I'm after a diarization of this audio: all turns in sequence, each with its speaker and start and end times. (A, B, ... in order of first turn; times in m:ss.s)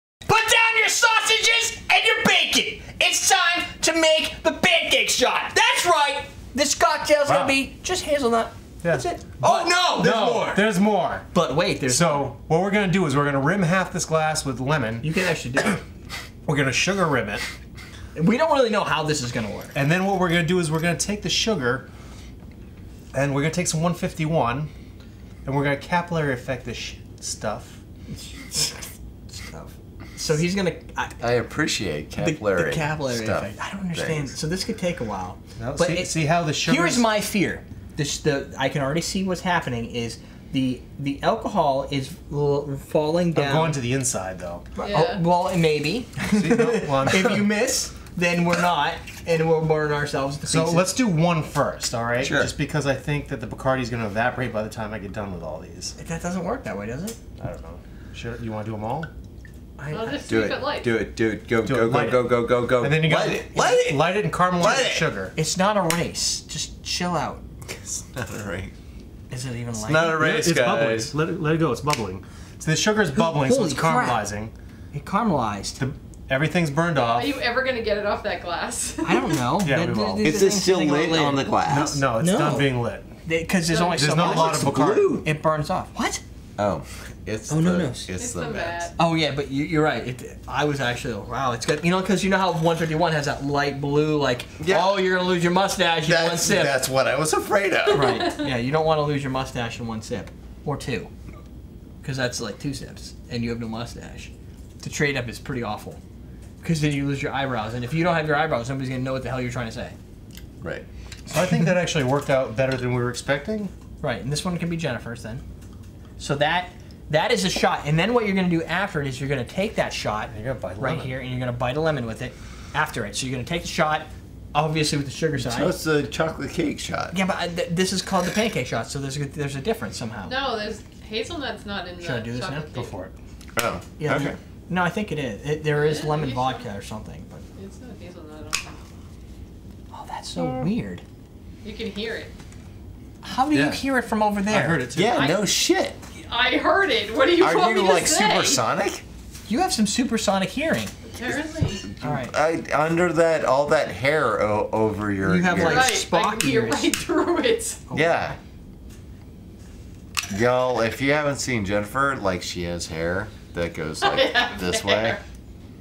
0:00.2-0:10.6 A
0:07.2-0:07.6 B
0:08.8-0:11.3 B
0:11.3-0:12.3 A
0:11.9-0:15.0 B
0:15.0-0:15.8 A
0:16.4-0:17.4 B
0:18.1-0:19.7 A
0:19.7-0:21.9 B
0:23.1-0:24.7 B
0:25.4-0:27.8 B
0:28.1-0:31.2 A
0:31.2-0:34.3 C
0:32.2-0:43.8 A
0:35.6-0:37.1 B
0:43.3-0:44.6 B
0:44.8-0:50.9 A
0:44.8-0:45.2 D
0:46.3-0:47.5 B
0:50.5-0:55.9 B
0:52.2-0:52.5 C
0:56.0-0:57.2 A
0:57.4-0:59.1 B
0:59.8-1:00.2 A
0:59.9-1:00.9 D
1:00.3-1:05.0 C
1:01.6-1:05.3 B
1:05.3-1:07.4 A
1:07.7-1:08.7 C
1:09.3-1:10.2 A
1:09.7-1:11.1 C
1:10.2-1:14.5 B
1:13.1-1:14.2 A
1:14.9-1:15.8 A
1:15.8-1:17.4 B
1:17.0-1:19.4 D
1:19.0-1:21.5 A
1:19.6-1:20.3 B
1:20.2-1:22.0 C
1:21.7-1:23.1 B
1:22.1-1:22.7 A
1:23.2-1:26.2 A
1:23.7-1:24.1 D
1:24.0-1:25.2 B
1:24.2-1:25.0 C
1:26.6-1:28.9 C
1:27.5-1:28.1 A
1:28.2-1:28.9 D
1:29.0-1:36.8 A
1:34.6-1:35.0 C
1:36.0-1:38.2 C
1:37.9-1:38.5 D
1:37.9-1:41.1 A
1:42.0-1:46.0 A
1:46.6-1:50.0 A
1:50.6-1:50.9 C
1:51.3-1:53.7 B
1:54.0-1:55.4 A
1:56.2-2:05.7 A
2:00.3-2:01.2 B
2:05.4-2:07.2 C
2:07.1-2:10.4 A
2:10.2-2:13.0 D
2:12.0-2:12.7 A
2:12.7-2:13.1 B
2:13.5-2:14.4 C
2:14.0-2:17.4 A
2:15.7-2:16.6 D
2:17.6-2:18.8 D
2:19.9-2:21.0 A
2:20.4-2:20.7 B
2:21.6-2:22.3 D
2:23.2-2:24.8 A
2:23.5-2:23.8 B
2:24.5-2:25.3 B
2:24.9-2:26.0 C
2:25.1-2:25.5 D
2:26.2-2:28.6 D
2:27.4-2:29.0 C
2:29.4-2:30.9 A
2:31.0-2:31.8 D
2:31.2-2:35.9 C
2:32.0-2:32.3 A
2:35.2-2:36.9 A
2:35.5-2:37.8 D
2:37.9-2:38.3 A
2:37.9-2:38.4 C
2:40.3-2:45.2 C
2:44.0-2:45.2 D